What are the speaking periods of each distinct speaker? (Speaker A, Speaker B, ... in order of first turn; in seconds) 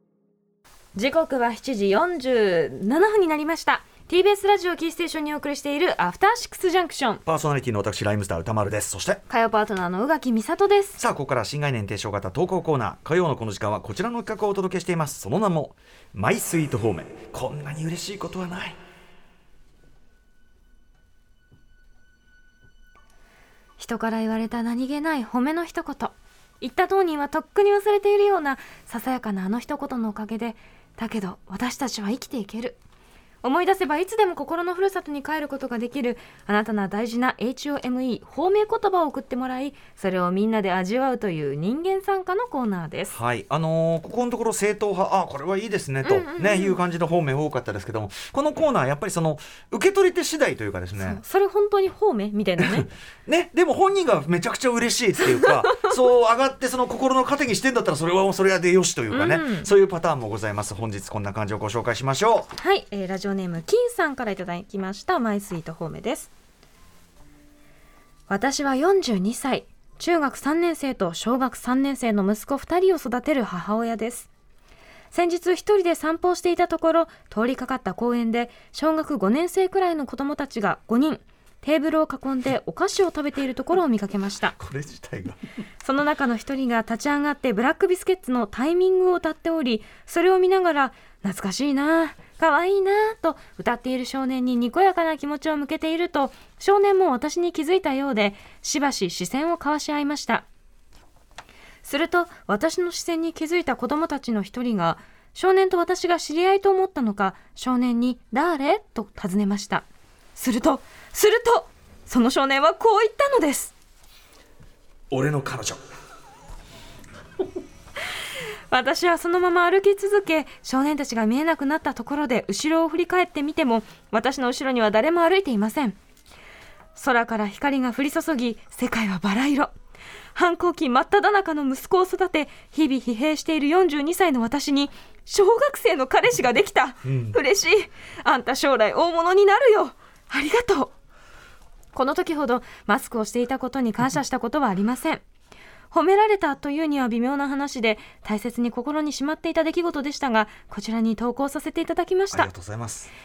Speaker A: 0.9-7.2, 9.3-11.0, 23.8-32.8, 33.4-43.2, 46.0-46.8, 51.0-52.9, 59.1-59.7, 62.5-66.3, 68.3-74.3, 75.1-84.5, 85.8-100.5, 101.8-113.7, 118.7-126.0, 126.9-129.7, 130.3-140.9, 141.9-145.2, 145.9-152.5
Speaker B: 7.2-9.2, 11.0-18.8, 43.1-51.2, 52.6-62.5, 84.6-85.4, 115.1-115.8, 137.0-137.4, 152.3-153.1